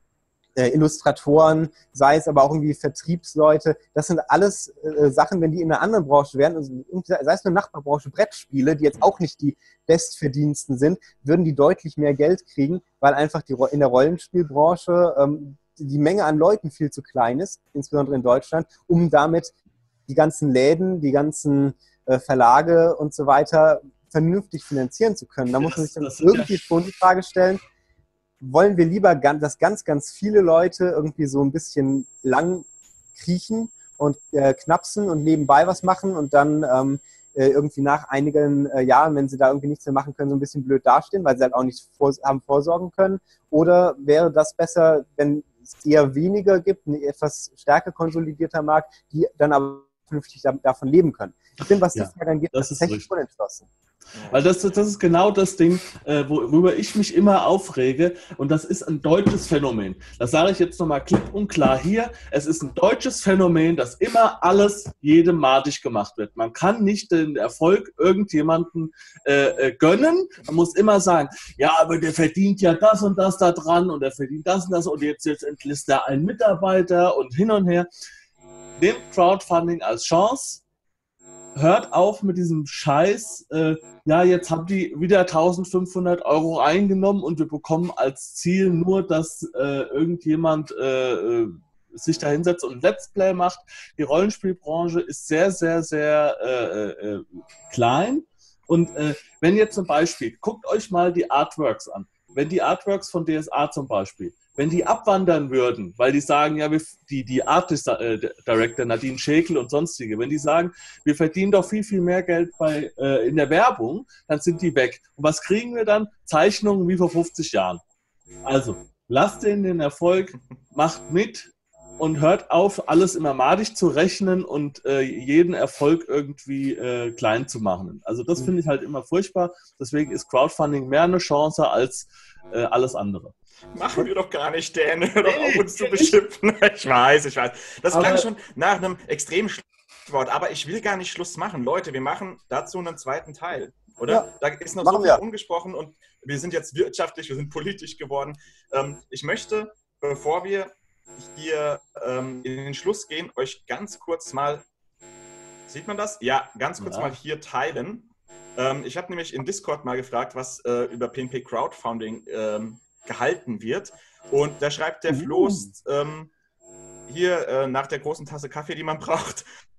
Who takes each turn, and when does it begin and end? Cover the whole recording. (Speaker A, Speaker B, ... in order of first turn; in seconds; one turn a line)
Speaker A: 0.6-19.5
Speaker B: 8.9-9.2
Speaker A: 20.1-27.6
Speaker C: 25.5-26.7
Speaker A: 28.4-53.7
Speaker C: 51.9-53.1
Speaker B: 54.1-54.8
Speaker C: 54.3-77.9
Speaker C: 78.8-80.6
Speaker C: 81.6-117.8
Speaker C: 118.4-133.3
Speaker B: 133.7-154.7
Speaker C: 135.2-136.2
Speaker C: 137.9-138.3
Speaker A: 144.8-145.2
Speaker B: 155.7-166.3
Speaker C: 156.8-157.2
Speaker C: 165.1-165.7
Speaker B: 167.1-169.4